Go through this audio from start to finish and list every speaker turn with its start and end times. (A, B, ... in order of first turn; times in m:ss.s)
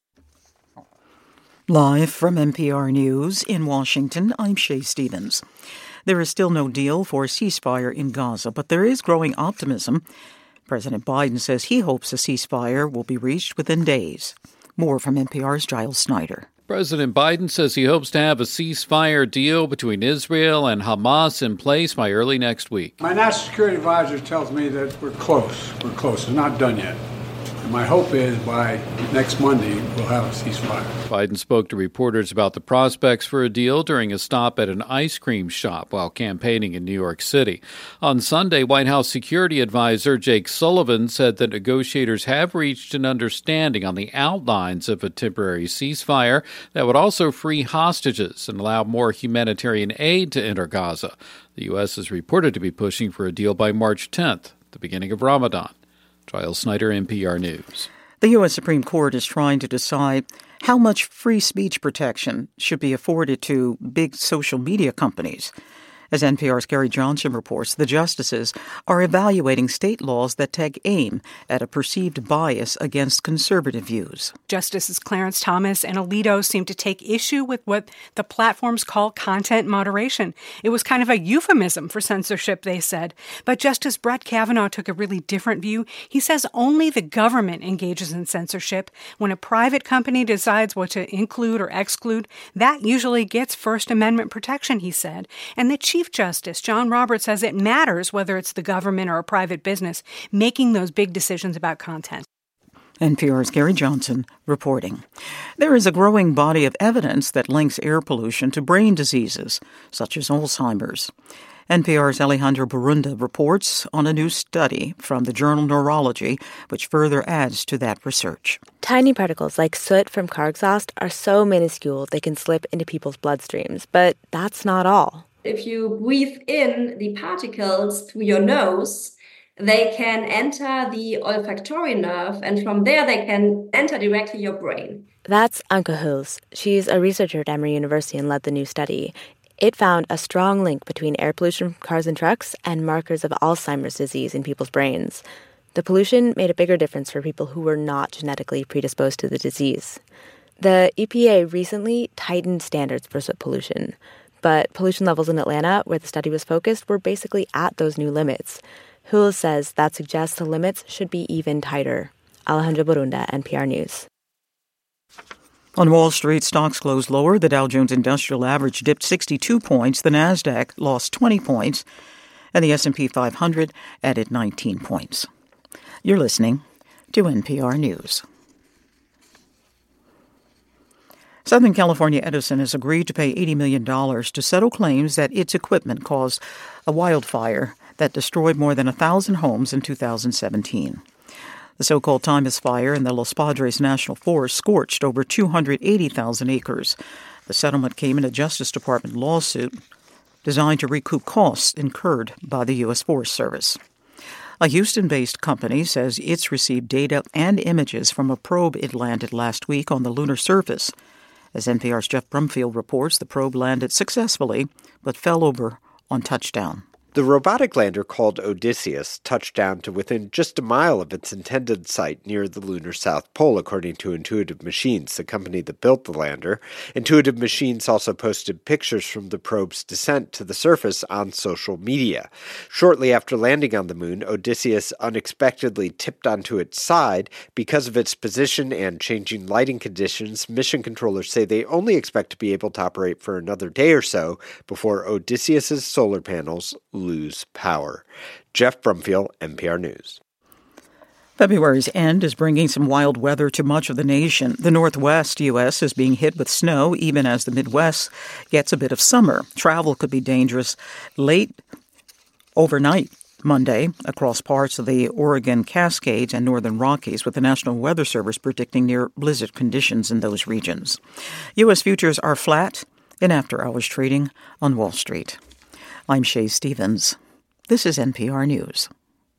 0:01.7-0:05.4 A
0:06.0-0:10.0 A
0:10.7-0:16.5 A
0:16.7-0:22.9 B
0:23.0-0:27.0 C
0:27.6-0:31.0 C
0:31.1-0:55.7 B
0:56.3-0:57.9 B
0:58.2-1:05.5 A
1:06.1-1:14.3 A
1:14.5-1:42.2 D
1:43.0-1:45.0 A
1:45.6-1:51.1 A
1:51.7-1:58.6 A
1:58.8-2:05.2 E
2:05.4-2:15.0 F
2:15.2-2:25.2 E
2:25.7-2:30.0 E
2:30.6-2:44.0 E
2:45.8-2:51.8 A
2:52.5-2:55.3 A
2:56.0-2:58.2 A
3:01.4-3:11.0 A
3:11.8-3:19.8 A
3:20.4-3:23.8 A
3:24.6-3:30.9 A
3:31.5-3:36.8 A
3:37.1-4:10.2 G
4:11.4-4:21.6 A
4:22.6-4:31.0 A
4:31.6-4:35.4 A
4:36.1-4:37.2 A
4:37.7-4:38.9 A